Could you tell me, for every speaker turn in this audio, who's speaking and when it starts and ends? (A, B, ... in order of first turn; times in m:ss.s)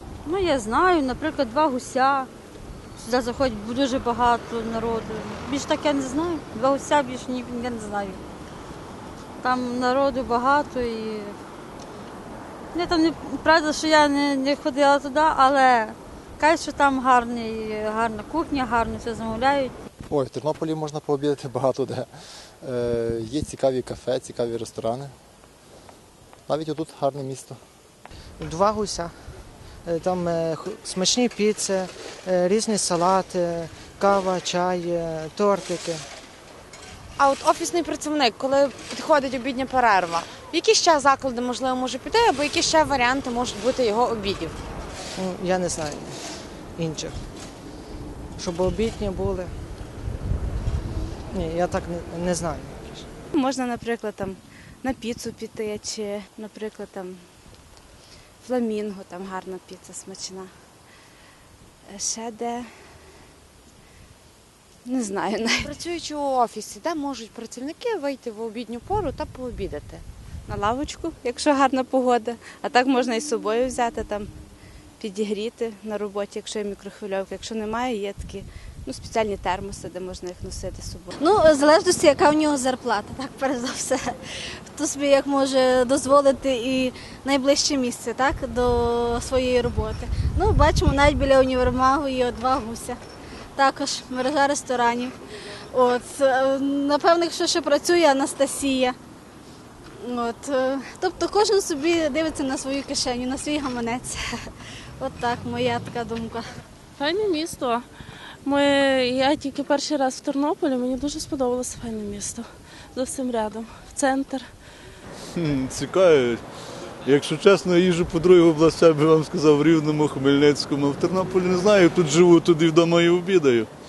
0:00.2-0:02.3 A
0:03.0-0:08.2 A
0:09.4-0:11.3 A
0:12.7-0:19.8 A
0:20.1-0:25.1 B
0:26.5-0:27.6 B
0:28.4-0:29.1 C
0:29.8-0:36.0 C
0:37.2-0:44.6 D
0:45.2-0:46.2 C
0:46.8-0:47.2 C
0:48.4-0:49.5 C
0:51.3-0:53.1 C
0:53.3-0:57.2 E
0:58.4-1:00.5 E
1:01.9-1:02.7 E
1:04.9-1:05.7 E
1:05.6-1:10.0 D
1:10.5-1:14.3 E
1:15.0-1:21.1 E
1:21.2-1:24.1 F
1:24.7-1:33.0 F
1:33.6-1:35.2 F
1:35.7-1:39.0 F
1:40.0-1:46.4 F
1:47.0-1:47.9 G
1:48.4-1:54.5 G
1:55.4-1:56.4 H
1:57.1-2:03.7 H